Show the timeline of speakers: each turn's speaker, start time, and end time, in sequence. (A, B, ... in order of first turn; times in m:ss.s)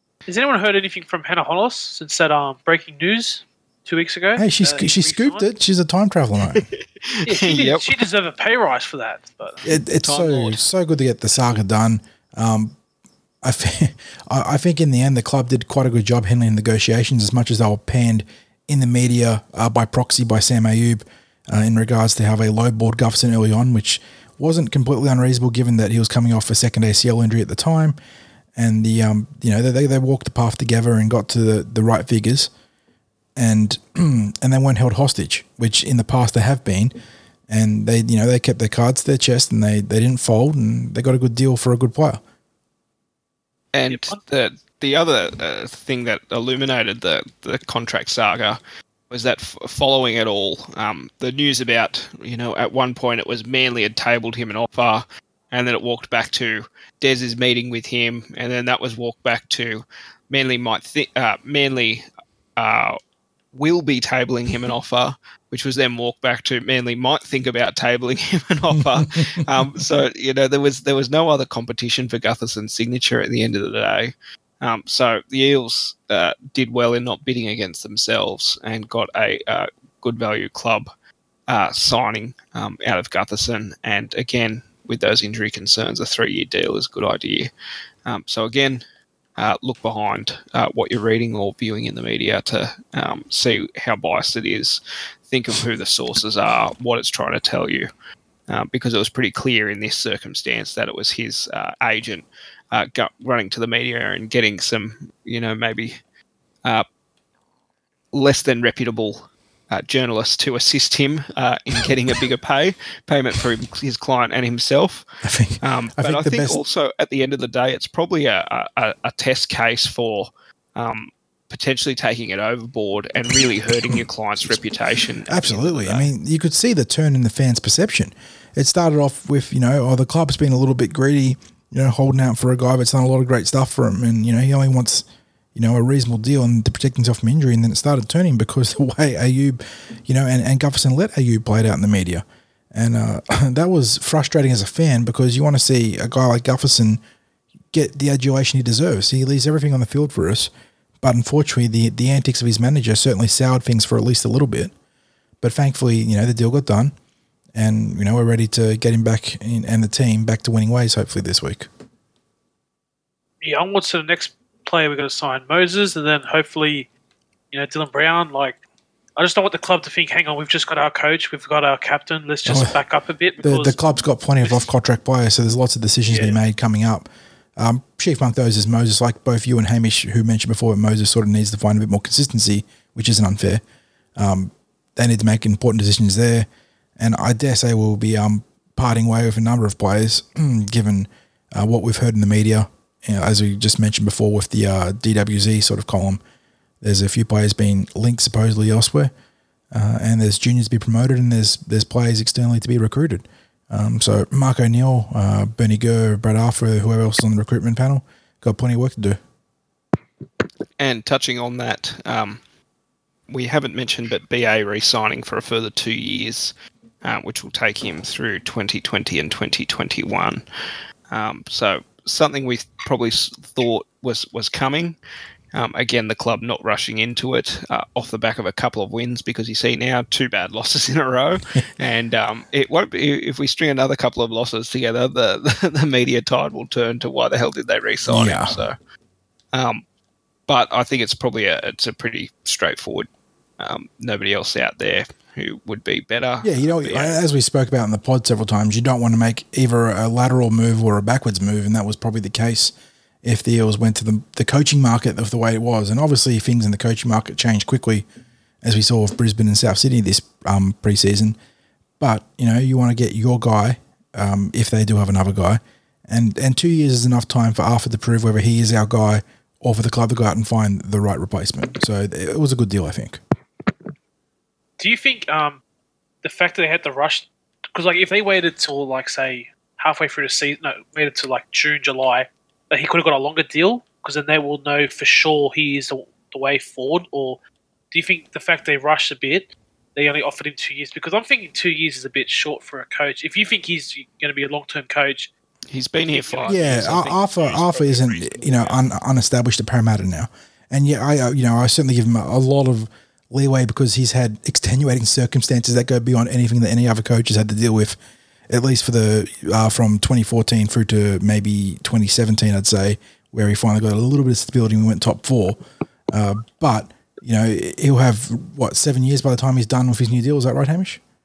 0:00.3-0:05.5 A
0:04.4-0:06.7 B
0:06.5-0:07.9 C
0:07.3-0:09.6 A
0:09.6-0:12.8 B
0:10.0-0:10.6 C
0:13.4-0:28.0 B
0:28.6-0:32.5 B
0:33.4-0:37.0 B
0:37.5-0:42.2 B
0:43.7-1:02.1 C
0:43.9-0:44.2 A
1:02.6-1:03.0 C
1:03.5-1:20.9 C
1:21.5-1:27.5 C
1:28.1-1:28.8 C
1:29.4-1:37.9 C
1:38.5-1:46.0 C
1:48.1-1:55.1 C
1:55.2-1:56.6 B
1:55.6-2:06.1 C
2:03.7-2:04.5 B
2:05.3-2:27.0 B
2:27.7-2:30.5 B
2:31.0-2:34.7 B
2:35.4-2:36.9 B
2:37.6-2:41.7 B
2:43.4-2:46.9 A
2:47.5-2:48.6 A
2:49.2-2:53.8 A
2:52.4-2:52.8 B
2:53.4-3:03.6 B
2:56.1-2:56.4 A
3:04.2-3:16.2 B
3:16.8-3:19.1 B
3:19.7-3:29.2 B
3:30.8-3:32.4 C
3:33.3-3:40.4 C
3:41.1-3:45.0 C
3:45.5-3:58.8 C
3:58.1-3:58.6 B
3:59.5-3:59.8 C
4:00.5-4:03.1 C
4:03.6-4:07.2 C
4:06.4-4:18.0 B
4:18.6-4:21.4 B
4:22.0-4:33.2 B
4:34.8-4:35.6 A
4:36.2-4:47.4 A
4:47.9-4:55.3 A
4:55.7-4:58.8 C
4:56.1-4:57.1 A
4:56.5-5:08.0 B
4:58.2-4:58.6 A
5:08.5-5:21.0 B